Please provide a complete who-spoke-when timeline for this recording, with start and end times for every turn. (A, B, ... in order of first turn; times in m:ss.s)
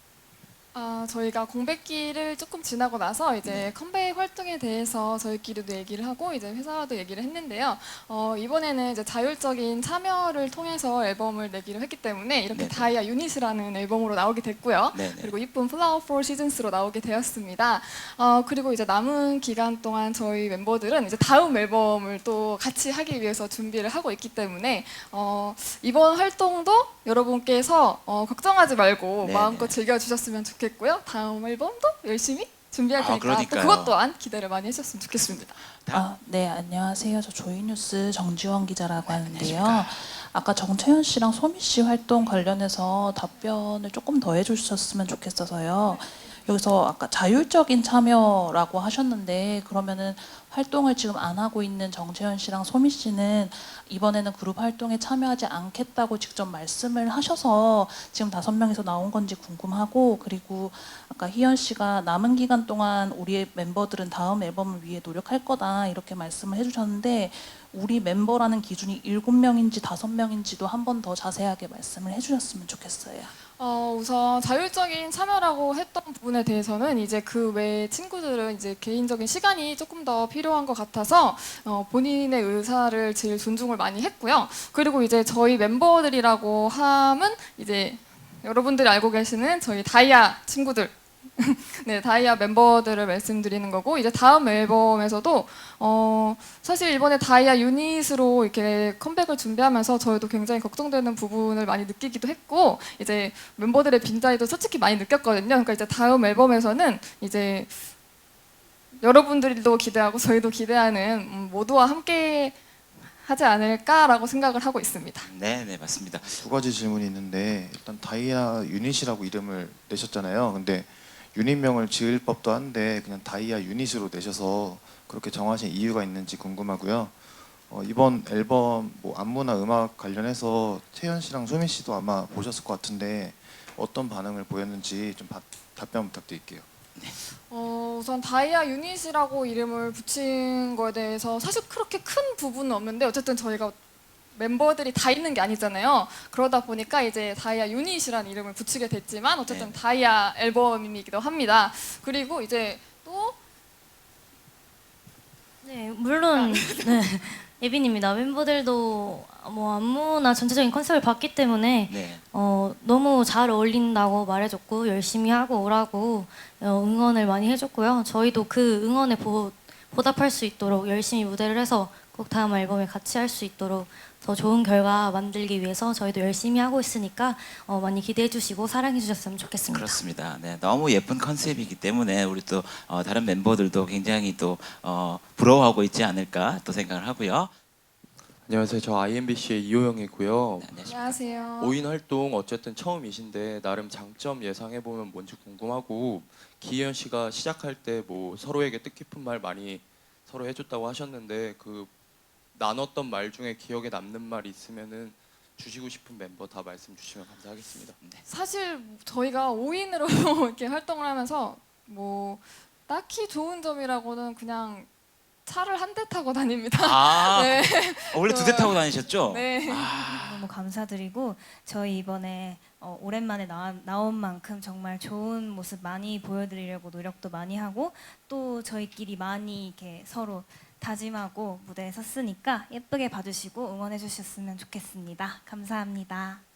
0:00.7-0:35.5 A
0:03.4-0:03.7 B
0:12.5-0:13.0 B
0:14.9-0:15.3 B
0:29.2-0:29.8 B
0:33.0-0:34.0 B
0:35.2-0:36.0 B
0:35.9-1:13.3 C
0:39.0-0:40.0 B
1:13.6-1:47.8 A
1:49.0-1:52.6 A
1:53.1-1:55.3 A
1:55.2-1:56.4 B
1:56.3-2:07.1 D
2:07.7-2:16.6 D
2:17.3-2:23.8 A
2:24.3-2:33.4 A
2:29.4-2:29.8 B
2:35.6-2:59.9 E
2:36.3-2:36.9 A
2:41.8-2:42.2 B
2:59.7-3:07.5 B
3:08.4-3:11.0 F
3:10.6-3:11.2 B
3:10.9-3:11.8 A
3:11.6-3:21.9 F
3:22.5-3:28.0 F
3:28.3-3:34.9 A
3:35.4-3:39.8 A
3:36.7-3:40.5 B
3:39.9-3:56.4 G